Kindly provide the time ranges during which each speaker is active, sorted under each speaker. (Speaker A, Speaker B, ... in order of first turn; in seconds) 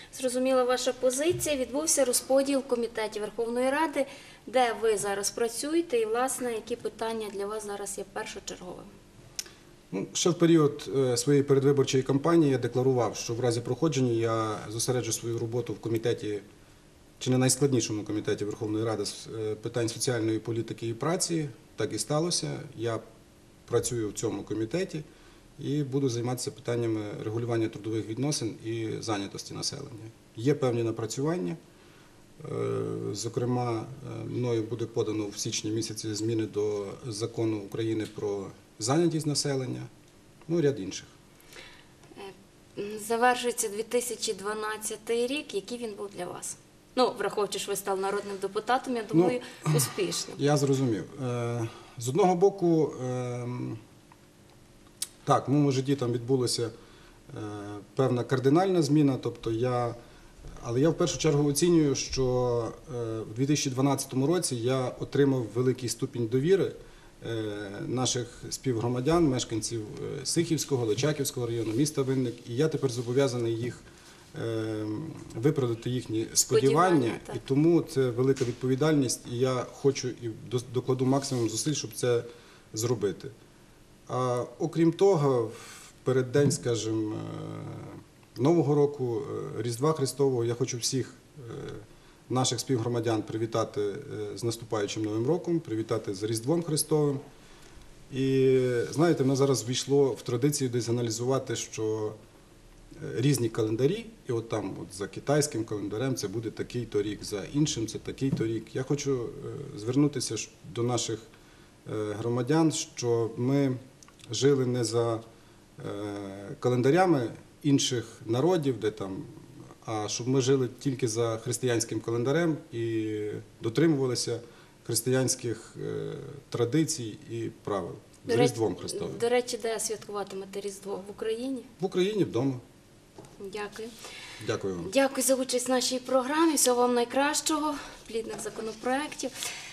Speaker A: 0.1-8.9, 42.1-50.4, 76.5-77.4, 128.2-131.7, 133.4-133.9, 134.8-139.3
Speaker B: 9.9-16.4, 17.2-23.0, 23.7-25.0, 25.6-31.6, 32.4-39.9, 40.5-41.1, 49.1-53.8, 55.2-56.7, 57.3-60.0, 60.6-73.8, 74.3-83.3, 84.1-97.2, 98.1-102.2, 103.0-111.3, 111.8-115.2, 115.8-129.2, 131.8-132.6, 134.4-134.9